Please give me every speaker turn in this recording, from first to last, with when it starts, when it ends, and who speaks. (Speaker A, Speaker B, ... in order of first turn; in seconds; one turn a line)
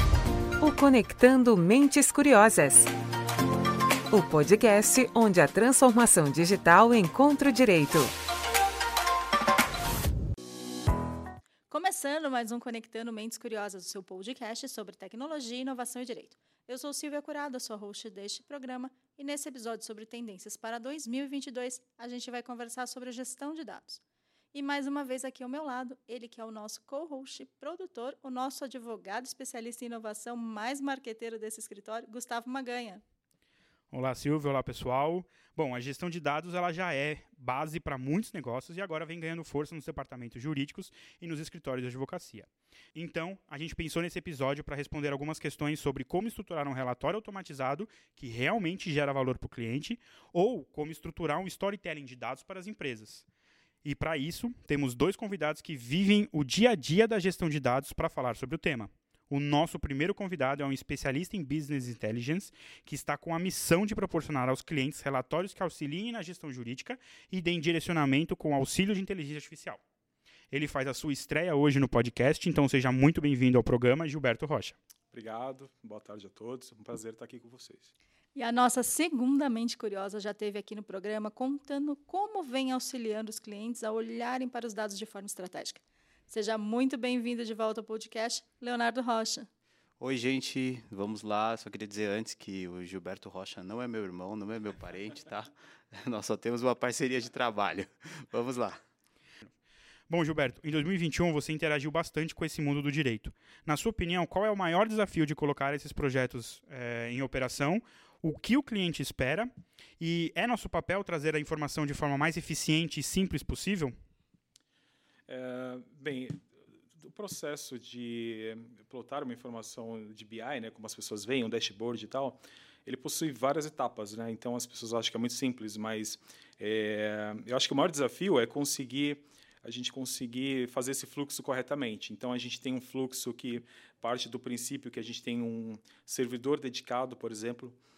Speaker A: 0.6-2.9
Speaker A: 4.1-8.1
Speaker B: 11.7-24.0
Speaker B: 24.5-33.0
Speaker C: 33.9-53.2
Speaker C: 53.8-69.8
Speaker C: 70.5-74.8
Speaker D: 75.1-77.9
Speaker B: 78.3-89.5
Speaker E: 90.0-98.8
Speaker C: 100.1-113.9
Speaker D: 115.3-116.4
Speaker D: 117.0-137.8